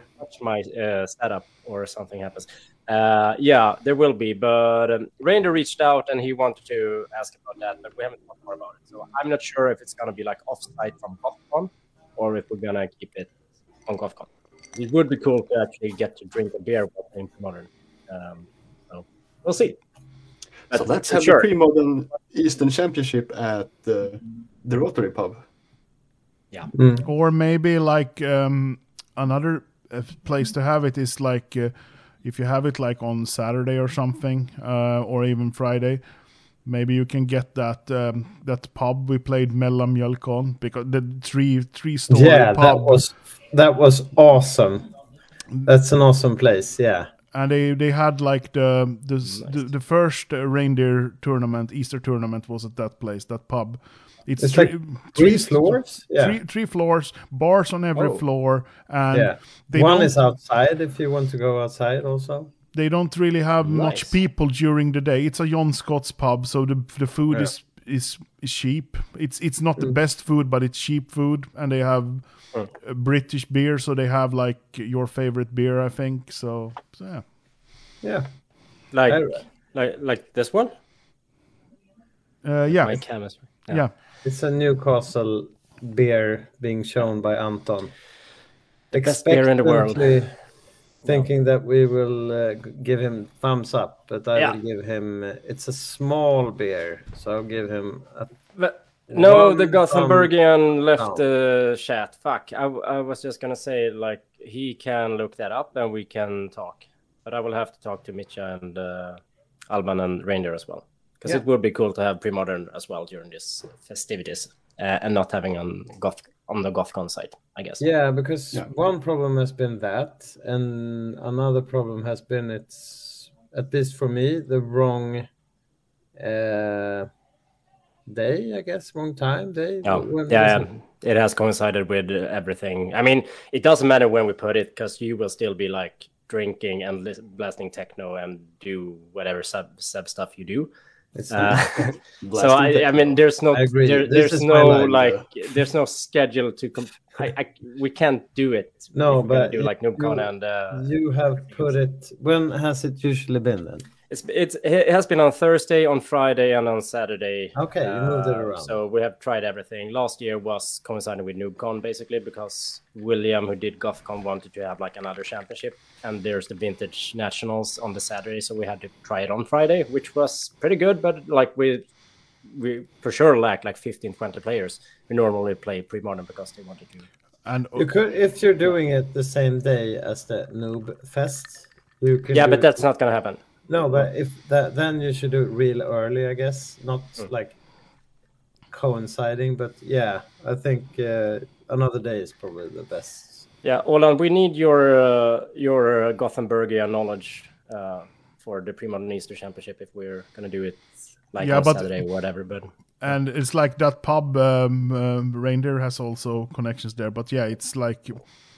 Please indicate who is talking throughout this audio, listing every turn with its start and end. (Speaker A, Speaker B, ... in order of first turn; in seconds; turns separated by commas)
Speaker A: 0.2-13.3, Speaker A: 13.8-19.8, Speaker A: 20.7-21.5, Speaker B: 20.7-25.4, Speaker C: 26.7-27.0, Speaker D: 27.1-31.7, Speaker D: 32.2-36.0, Speaker D: 36.6-43.0, Speaker C: 42.1-44.9, Speaker C: 45.6-47.1, Speaker D: 47.3-60.1, Speaker C: 54.4-56.4, Speaker C: 59.1-62.5, Speaker D: 62.7-77.2, Speaker A: 63.6-64.1, Speaker C: 78.0-78.3, Speaker A: 78.9-80.7, Speaker C: 79.1-79.4, Speaker D: 82.4-83.9, Speaker A: 82.8-83.9, Speaker C: 84.2-87.9, Speaker C: 88.9-90.3, Speaker A: 88.9-90.2, Speaker C: 91.0-98.3, Speaker A: 98.5-117.8, Speaker C: 99.1-100.3, Speaker C: 101.0-101.2, Speaker C: 117.8-125.3, Speaker C: 126.2-127.1, Speaker C: 128.1-130.7, Speaker A: 129.8-140.7, Speaker C: 141.2-141.6, Speaker A: 141.3-150.9, Speaker B: 142.2-143.2, Speaker C: 143.5-145.0, Speaker B: 144.6-145.2, Speaker C: 148.9-153.9, Speaker A: 154.1-171.8, Speaker C: 157.6-158.8, Speaker A: 172.5-177.1, Speaker D: 177.4-177.9, Speaker C: 177.8-182.8, Speaker A: 182.3-183.4, Speaker C: 183.7-187.6, Speaker C: 188.7-193.4, Speaker A: 193.6-202.7, Speaker D: 201.4-202.0, Speaker D: 203.0-208.3